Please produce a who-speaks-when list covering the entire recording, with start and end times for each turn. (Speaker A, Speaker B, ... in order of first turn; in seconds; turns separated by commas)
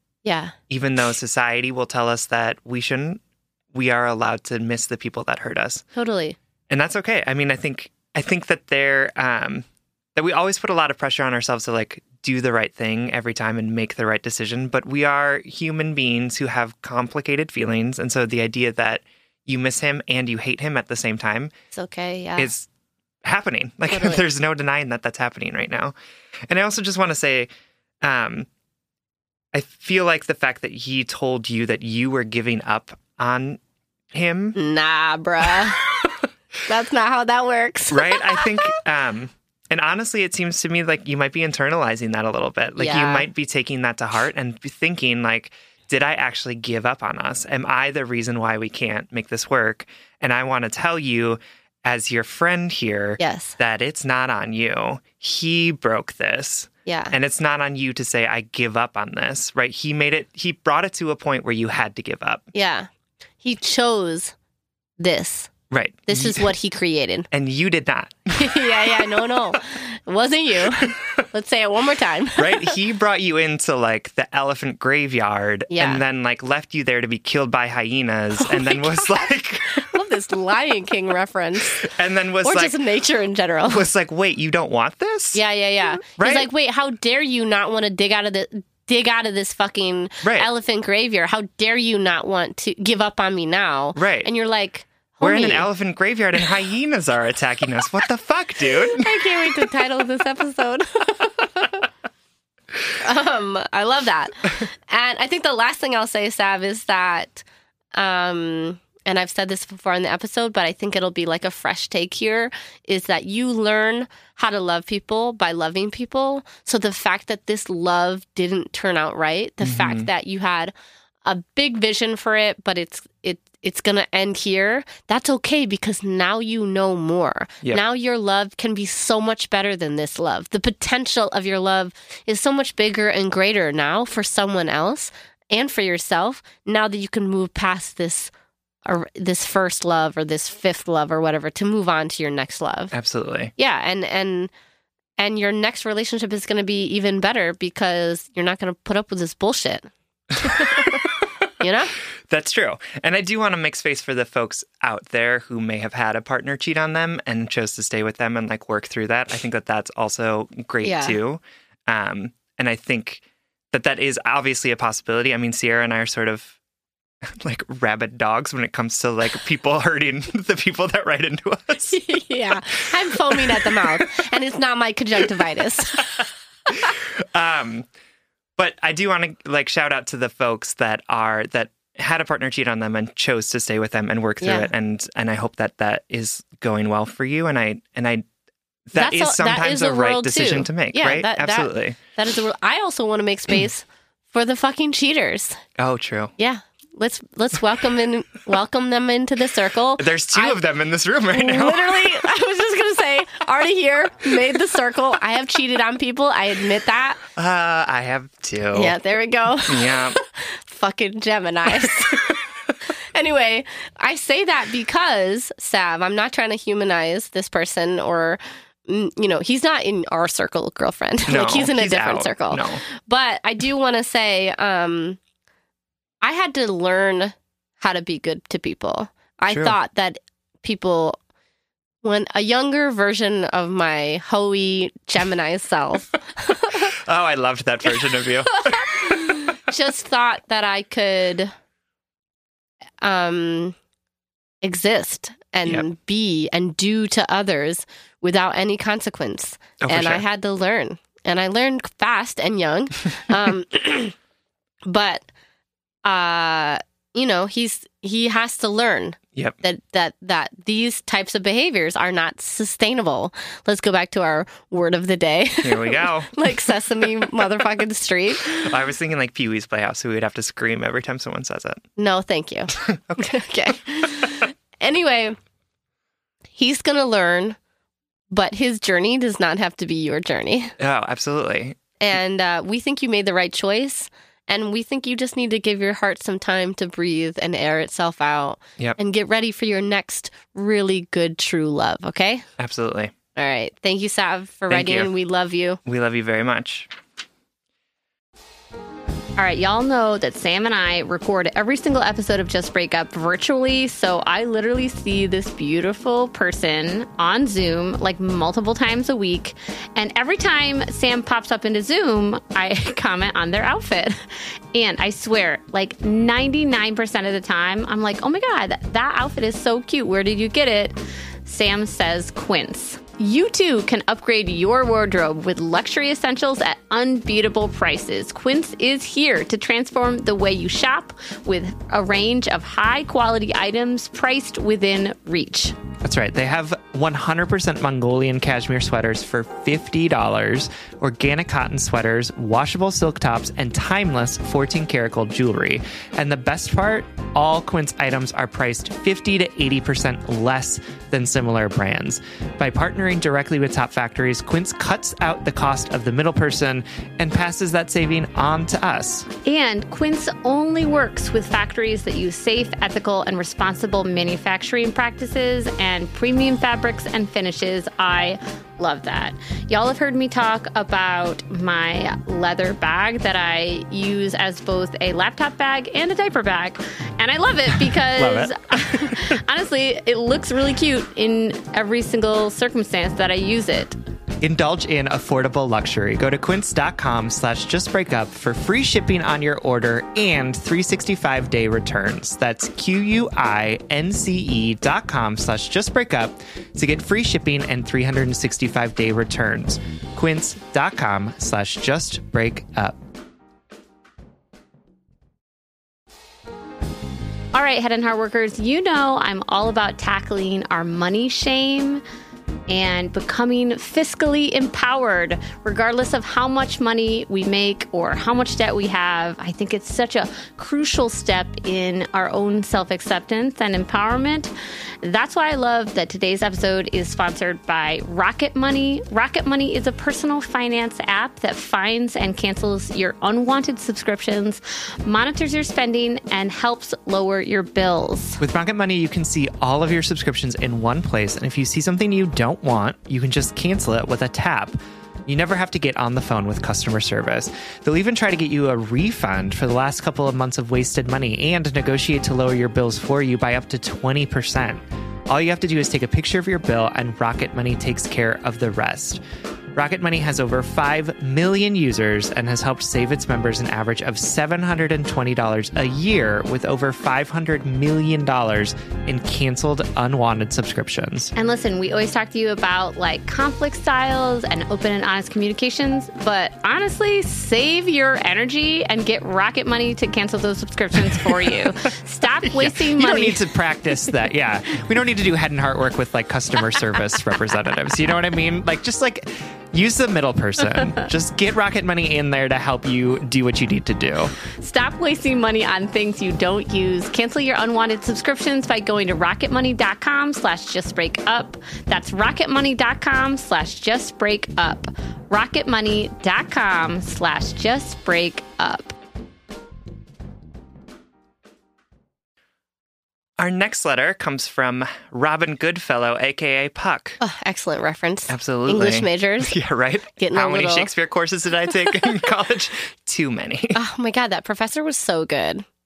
Speaker A: 0.2-0.5, Speaker B: 0.7-3.2, Speaker B: 3.7-5.8, Speaker A: 5.9-6.4, Speaker B: 6.7-21.5, Speaker A: 21.7-22.5, Speaker B: 22.4-22.7, Speaker B: 23.2-25.9, Speaker A: 23.9-24.2, Speaker B: 26.5-27.5, Speaker B: 28.0-28.5, Speaker B: 29.5-33.6, Speaker B: 34.1-34.6, Speaker A: 34.6-35.9, Speaker A: 36.7-38.7, Speaker B: 37.9-62.5, Speaker A: 42.8-43.3, Speaker A: 53.2-53.6, Speaker A: 56.9-57.1, Speaker A: 62.5-62.9, Speaker A: 63.4-64.3, Speaker A: 65.0-65.5, Speaker B: 65.7-66.5, Speaker A: 66.1-67.3, Speaker B: 67.3-68.8, Speaker A: 68.4-72.8, Speaker B: 70.8-71.2, Speaker B: 72.4-79.8, Speaker A: 75.7-76.0, Speaker A: 78.4-81.9, Speaker B: 81.8-82.8, Speaker A: 82.4-83.9, Speaker B: 83.7-85.4, Speaker A: 85.3-95.7, Speaker B: 86.1-86.5, Speaker B: 94.0-94.3, Speaker B: 95.2-99.5, Speaker A: 98.8-101.8, Speaker A: 103.0-120.7, Speaker B: 119.6-120.1, Speaker A: 121.2-138.3, Speaker A: 138.8-142.9, Speaker B: 142.9-143.5, Speaker A: 143.6-144.5, Speaker A: 145.2-151.9, Speaker B: 152.3-166.6, Speaker A: 160.8-161.2, Speaker B: 167.2-172.0, Speaker A: 171.9-176.2, Speaker B: 173.1-174.0, Speaker B: 176.7-177.9, Speaker B: 178.6-188.2, Speaker A: 184.4-184.7, Speaker B: 188.9-192.0, Speaker A: 188.9-195.6, Speaker B: 195.8-196.3, Speaker A: 196.4-200.6, Speaker B: 200.0-202.0, Speaker A: 201.3-207.2, Speaker B: 207.4-208.9, Speaker A: 208.7-225.2, Speaker B: 209.6-210.2, Speaker B: 221.3-222.8, Speaker A: 226.2-231.2, Speaker B: 229.5-229.8, Speaker A: 232.0-236.9, Speaker B: 236.8-239.3, Speaker A: 238.7-241.5, Speaker A: 243.0-243.8, Speaker A: 244.6-254.2, Speaker B: 249.8-250.2, Speaker A: 254.8-255.3, Speaker A: 256.0-268.7, Speaker B: 265.6-266.5, Speaker B: 268.5-271.8, Speaker A: 272.0-275.4, Speaker B: 272.8-273.4, Speaker A: 276.6-277.6, Speaker A: 278.3-280.7, Speaker B: 280.8-281.8, Speaker A: 282.0-292.4, Speaker B: 292.6-293.1, Speaker A: 293.4-295.8, Speaker B: 294.7-295.1, Speaker B: 295.9-296.9, Speaker C: 299.4-335.8, Speaker B: 336.0-359.3, Speaker C: 359.4-383.9, Speaker B: 378.1-379.4, Speaker B: 384.4-403.0, Speaker C: 407.5-412.0, Speaker C: 412.7-424.5, Speaker C: 425.0-438.4, Speaker B: 438.4-459.2, Speaker B: 459.7-471.3, Speaker C: 471.4-483.4, Speaker B: 481.0-481.6, Speaker B: 482.5-494.3, Speaker C: 494.4-508.9, Speaker B: 513.4-517.2, Speaker A: 517.2-519.5, Speaker B: 518.3-523.8, Speaker A: 520.2-520.9, Speaker A: 523.7-525.6